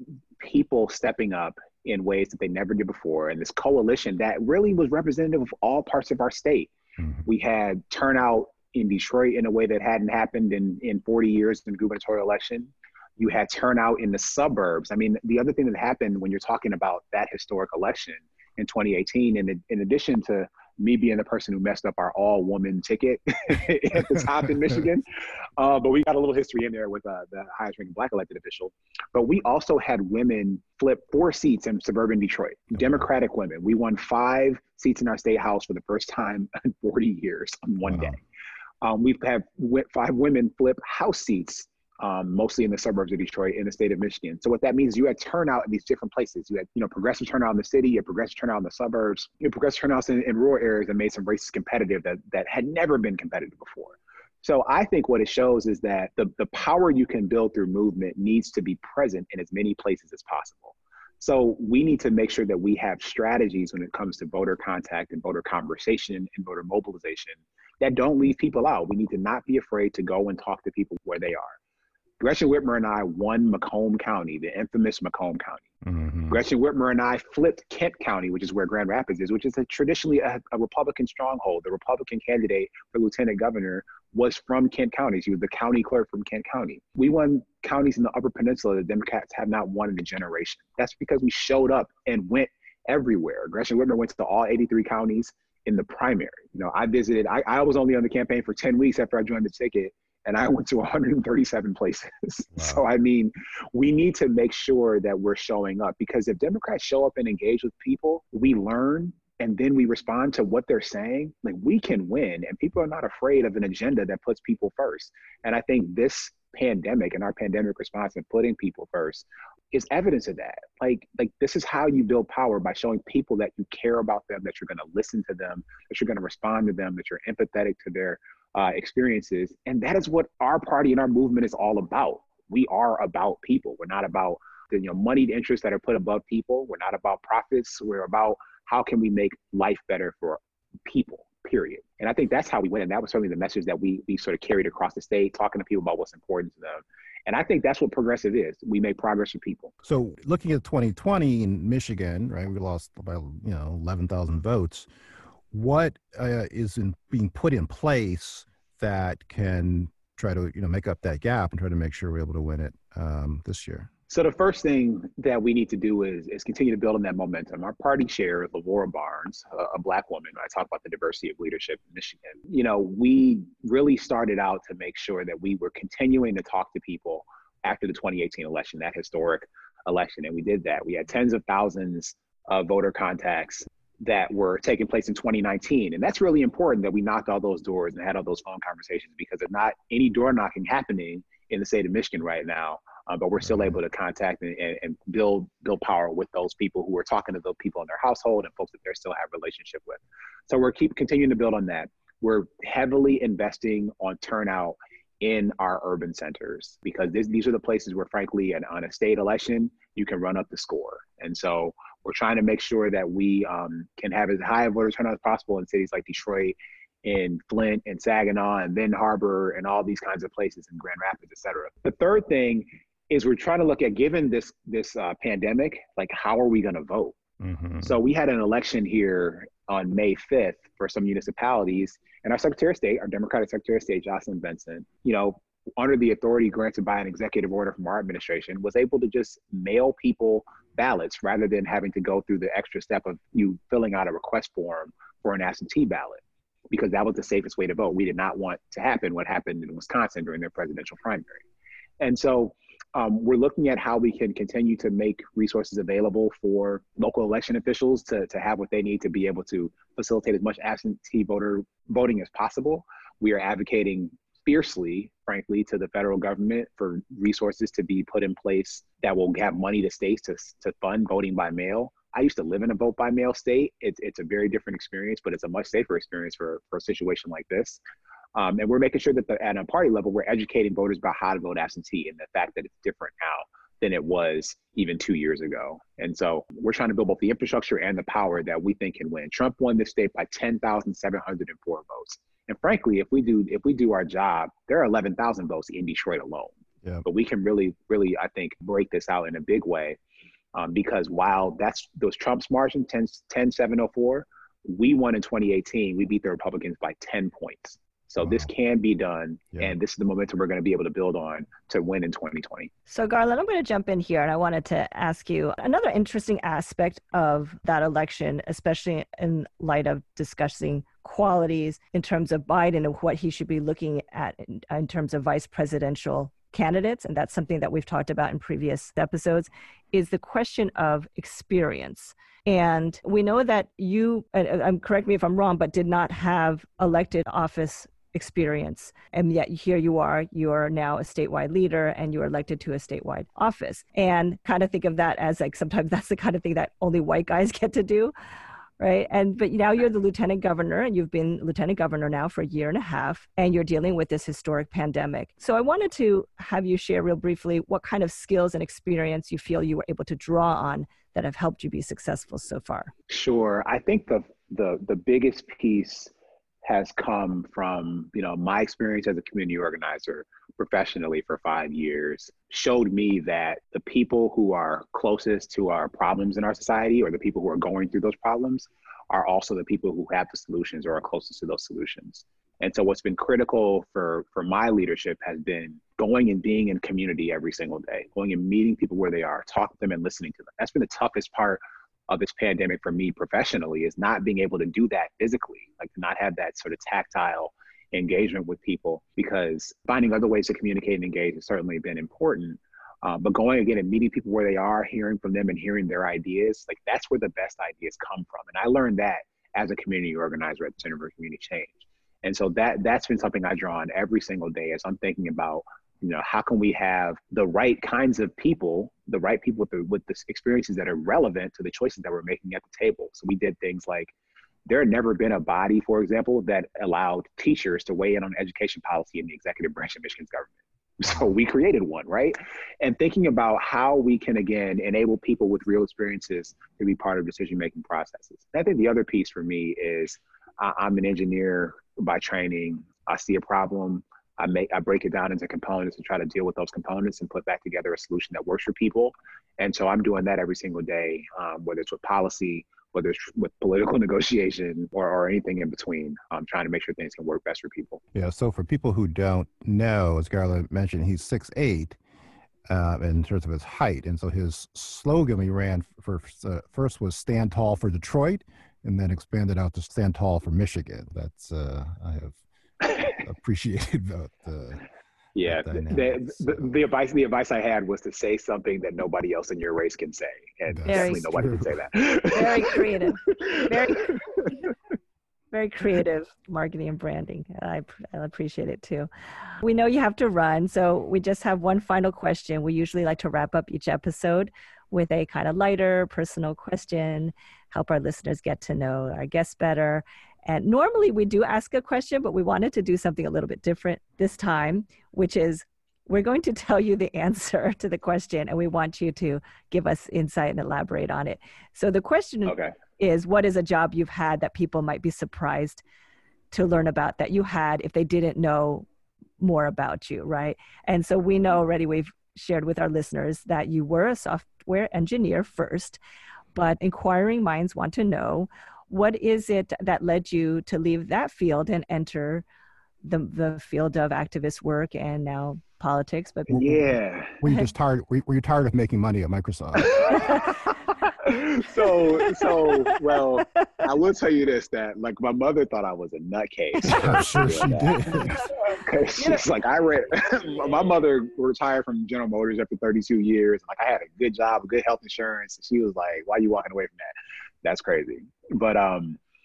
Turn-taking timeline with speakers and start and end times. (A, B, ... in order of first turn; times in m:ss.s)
0:00.4-0:06.7 A
0:07.0-0:07.2 B
0:07.2-0:25.0 A
0:25.6-0:38.2 A
0:32.8-0:33.0 B
0:37.8-0:38.2 B
0:38.8-1:11.6 A
1:12.2-1:15.6 A
1:15.8-1:16.4 B
1:16.3-2:29.7 A
1:42.5-1:42.8 B
2:29.8-2:34.9 B
2:35.5-2:43.9 B
2:44.1-3:47.2 A
3:13.4-3:13.8 B
3:47.4-3:48.0 B
3:47.8-4:11.4 A
4:12.0-4:37.8 A
4:38.3-5:00.0 A
5:00.5-5:12.7 A
5:08.2-5:08.5 B
5:12.9-5:48.1 C
5:48.8-6:02.9 C
6:03.1-6:06.1 A
6:06.6-7:04.1 A
7:04.6-7:38.0 A
7:38.1-7:42.0 B
7:42.7-7:52.4 B
7:53.0-7:54.8 B
7:55.3-8:04.6 A
7:55.4-7:56.8 B
8:00.7-8:01.9 B
8:00.8-8:01.2 C
8:02.3-8:04.5 C
8:05.5-8:09.1 C
8:09.6-8:35.8 C
8:32.4-8:32.7 A
8:36.5-8:38.9 C
8:39.4-8:46.0 C
8:46.5-8:52.4 C
8:53.0-8:56.8 C
8:56.5-9:00.4 B
8:56.5-8:57.4 A
8:59.8-9:00.6 A
9:01.2-9:17.1 A
9:02.3-9:02.9 C
9:06.8-9:08.5 B
9:06.9-9:07.2 C
9:17.6-9:19.2 A